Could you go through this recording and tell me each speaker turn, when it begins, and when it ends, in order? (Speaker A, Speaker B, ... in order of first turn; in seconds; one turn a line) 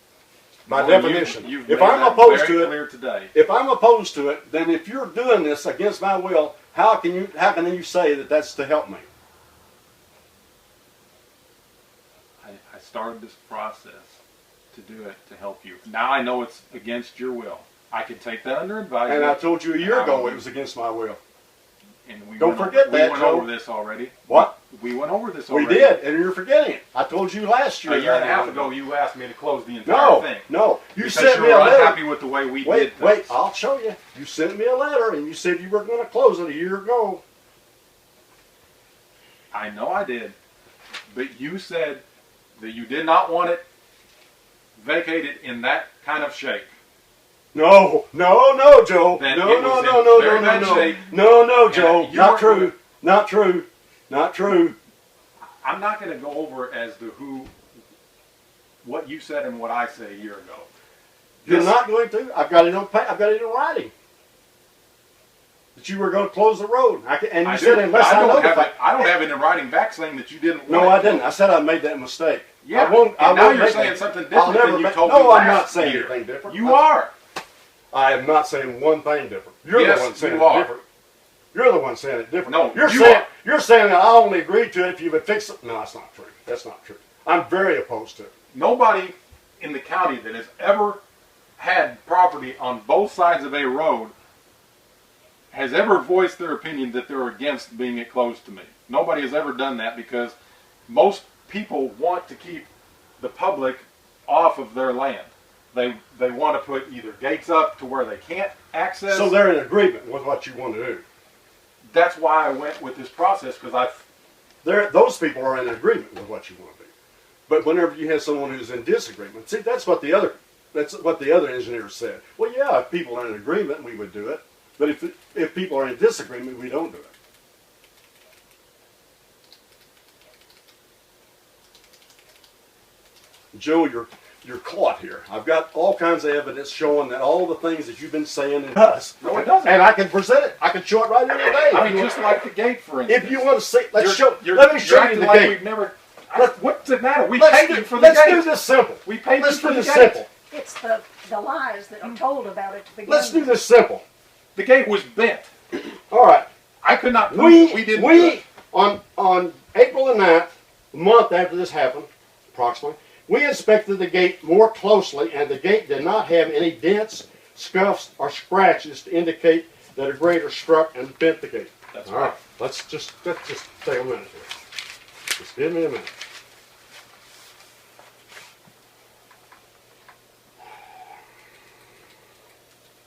Speaker A: 0.7-2.7
Speaker B: 0.7-3.3
Speaker A: 3.3-9.1
Speaker B: 12.4-14.2
Speaker B: 14.7-20.5
Speaker A: 19.1-21.2
Speaker B: 22.0-26.0
Speaker A: 22.4-23.5
Speaker A: 24.3-24.5
Speaker A: 25.5-28.7
Speaker B: 27.8-33.4
Speaker A: 29.9-32.0
Speaker A: 32.6-37.2
Speaker B: 39.5-40.3
Speaker B: 41.1-42.0
Speaker B: 42.5-43.6
Speaker B: 44.8-46.7
Speaker A: 47.5-54.8
Speaker B: 49.1-51.1
Speaker B: 51.6-52.7
Speaker B: 55.6-57.5
Speaker B: 58.8-60.7
Speaker B: 61.4-61.8
Speaker A: 61.4-63.9
Speaker A: 65.8-69.2
Speaker B: 67.4-71.3
Speaker A: 70.7-76.8
Speaker B: 72.6-77.1
Speaker A: 77.9-80.8
Speaker B: 79.7-80.7
Speaker A: 81.5-88.3
Speaker B: 82.5-83.3
Speaker B: 88.5-91.0
Speaker B: 91.6-94.1
Speaker B: 95.5-100.3
Speaker B: 100.9-102.7
Speaker B: 103.2-109.5
Speaker A: 109.1-111.0
Speaker B: 111.9-114.0
Speaker A: 114.6-116.9
Speaker A: 117.5-127.1
Speaker A: 133.5-142.1
Speaker B: 139.2-139.8
Speaker B: 141.7-150.3
Speaker A: 143.1-145.6
Speaker A: 147.3-150.3
Speaker C: 150.5-153.6
Speaker A: 153.1-154.0
Speaker B: 154.5-155.5
Speaker A: 156.1-156.5
Speaker B: 156.8-158.4
Speaker A: 157.3-174.5
Speaker B: 171.9-172.4
Speaker A: 175.4-176.1